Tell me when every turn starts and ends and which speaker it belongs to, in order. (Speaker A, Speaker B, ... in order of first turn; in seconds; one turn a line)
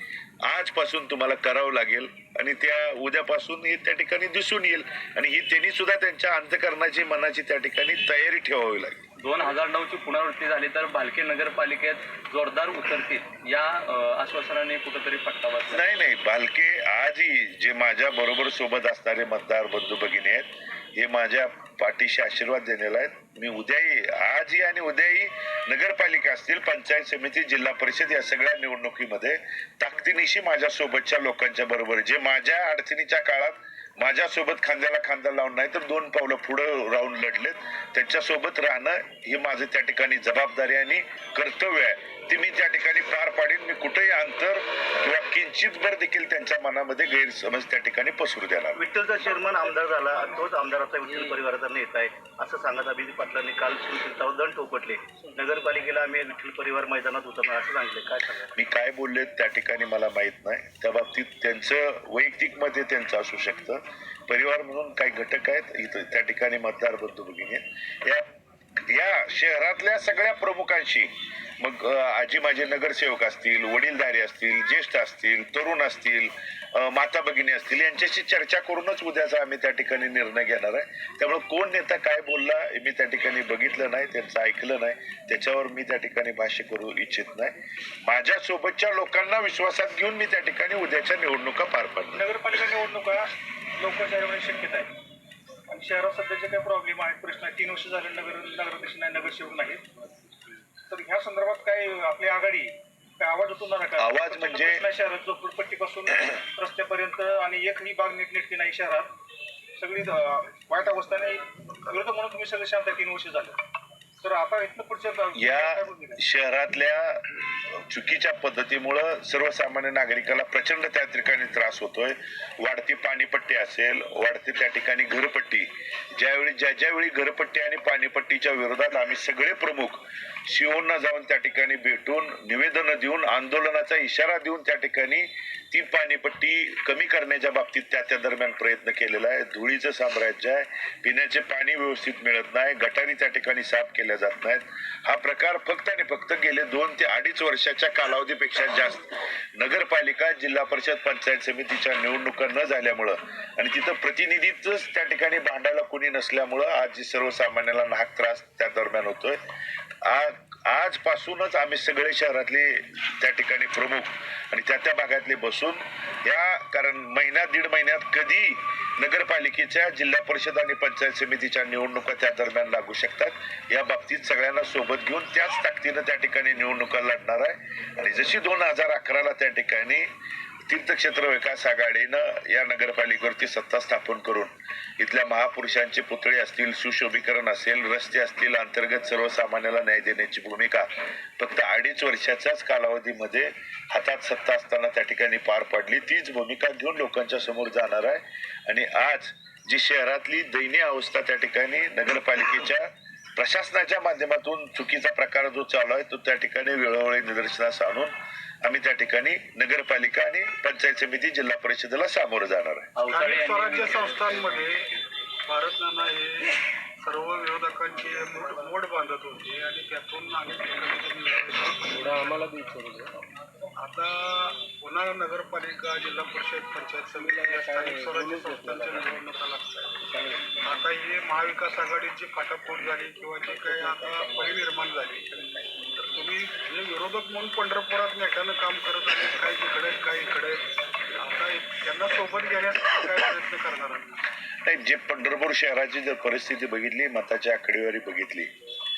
Speaker A: 0.4-9.1
Speaker B: 9.2-15.8
Speaker A: 15.7-48.9
Speaker C: 48.8-58.5
Speaker A: 58.5-68.3
Speaker A: 68.8-92.3
Speaker D: 92.1-94.9
Speaker D: 95.7-99.8
Speaker D: 100.9-109.1
Speaker A: 104.0-104.8
Speaker D: 109.8-113.6
Speaker D: 114.2-116.2
Speaker A: 115.4-159.4
Speaker A: 160.0-180.1
Speaker A: 180.7-190.9
Speaker A: 191.4-208.1
Speaker A: 208.6-212.9
Speaker B: 213.0-214.7
Speaker E: 213.1-214.9
Speaker E: 215.5-222.5
Speaker B: 222.0-223.2
Speaker E: 223.8-230.0
Speaker B: 227.2-229.1
Speaker B: 230.1-230.6
Speaker E: 230.6-240.6
Speaker B: 233.6-234.4
Speaker E: 241.2-244.2
Speaker A: 244.6-248.5